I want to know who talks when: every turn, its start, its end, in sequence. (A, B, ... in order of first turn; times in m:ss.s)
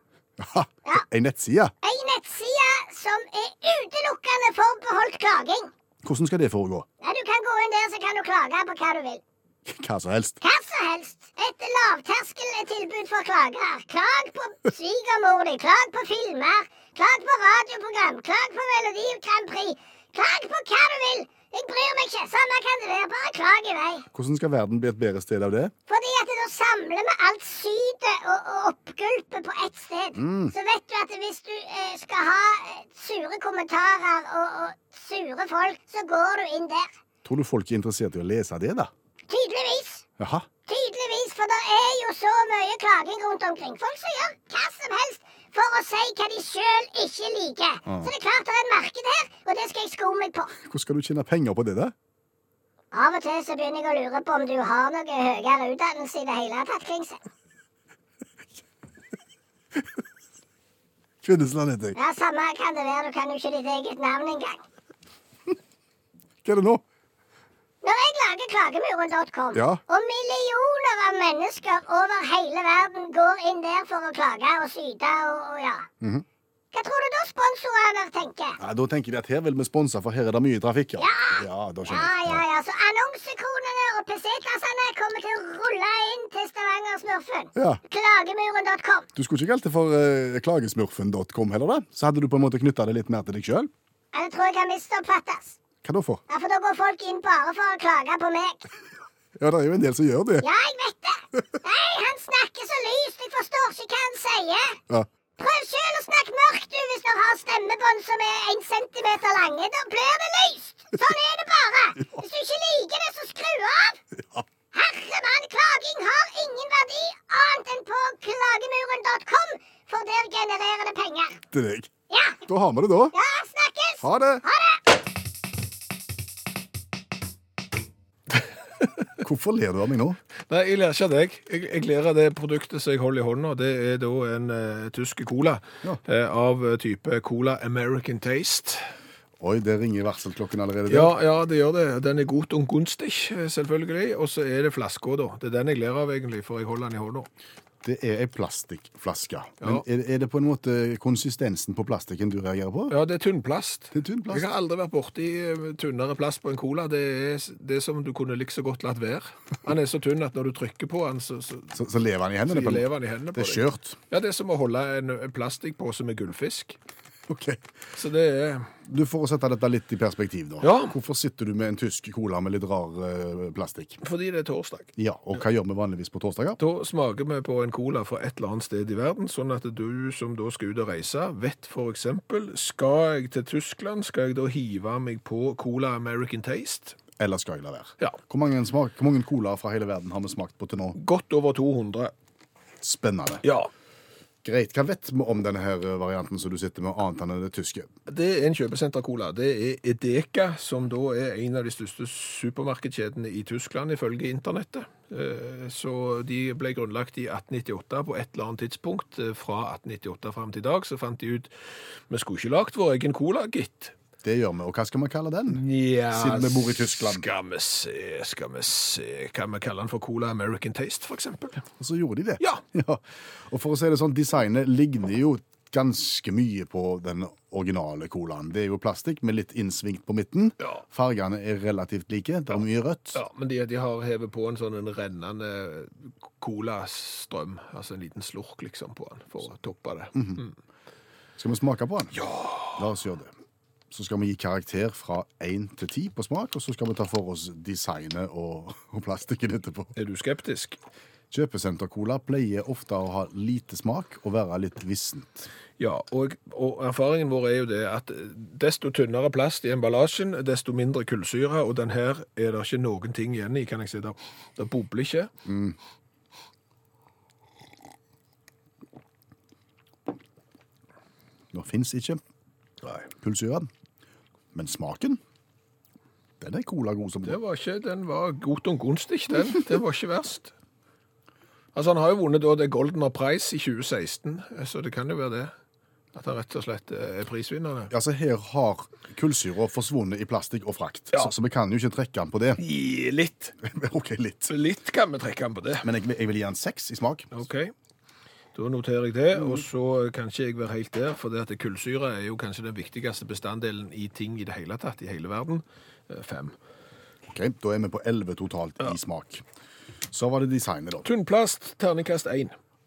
0:00.4-0:01.7 A
0:01.8-0:05.7 B
0:06.0-0:06.9 A
0:07.0-0:09.2 B
0:09.7-0:10.4 A
0:10.4-0:24.1 B
0:24.1-0:25.7 A
0:25.9-0:37.0 B
0:30.2-0:30.5 A
0:37.2-0:38.9 A
0:39.3-0:40.0 B
0:40.2-0:40.5 A
0:40.7-0:50.5 B
0:47.9-0:48.1 A
0:50.6-0:51.9 A
0:52.9-0:57.2 B
1:01.2-1:02.0 A
1:02.0-1:04.6 B
1:06.4-1:06.8 A
1:07.8-1:15.9 B
1:09.5-1:09.8 A
1:16.0-1:16.3 A
1:16.7-1:18.6 B
1:18.6-1:22.4 A
1:21.0-1:29.1 B
1:29.2-1:33.7 A
1:34.1-1:35.6 B
1:35.8-1:36.2 A
1:36.3-1:38.7 B
1:39.4-1:40.5 A
1:40.4-1:44.8 B
1:45.4-1:54.0 B
1:54.2-1:54.4 A
1:54.7-2:01.4 B
2:01.5-2:01.9 A
2:02.1-2:02.4 B
2:02.4-2:03.2 A
2:03.1-2:04.8 B
2:04.0-2:04.4 A
2:09.2-2:10.2 A
2:10.5-2:18.8 C
2:19.4-2:21.1 A
2:20.9-2:27.3 C
2:27.8-2:32.9 A
2:32.9-2:41.7 C
2:33.9-2:34.5 A
2:41.7-2:44.0 A
2:42.5-2:46.8 C
2:47.3-2:47.6 A
2:47.9-2:48.7 C
2:48.9-2:54.0 A
2:50.6-2:51.0 C
2:54.0-2:54.9 C
2:55.0-2:56.6 A
2:56.6-3:07.0 C
3:07.2-3:11.0 A
3:11.0-3:12.1 C
3:12.8-3:13.4 A
3:13.4-3:13.7 C
3:14.4-3:17.9 A
3:18.1-3:31.5 C
3:32.1-3:33.9 C
3:34.2-3:37.3 A
3:35.5-3:41.6 C
3:41.8-3:53.2 A
3:53.1-4:00.5 C
4:00.1-4:00.4 A
4:01.4-4:02.1 A
4:02.1-4:02.8 C
4:02.8-4:03.3 A
4:03.9-4:09.9 A
4:10.0-4:10.8 C
4:11.3-4:15.5 A
4:15.8-4:25.3 C
4:25.5-4:25.8 A
4:31.5-4:32.2 A
4:33.2-4:33.7 A
4:34.5-4:35.2 A
4:36.4-4:37.4 A
4:37.2-4:40.5 C
4:41.8-4:45.5 C
4:46.1-4:47.9 C
4:47.9-4:52.6 A
4:52.6-4:53.6 C
4:53.6-4:54.5 A
4:54.5-4:55.9 C
4:55.8-4:57.3 A
4:57.3-4:57.7 C
4:58.6-5:06.6 C
4:59.4-4:59.6 A
5:07.3-5:09.4 A
5:10.1-5:11.1 A
5:11.0-5:12.6 C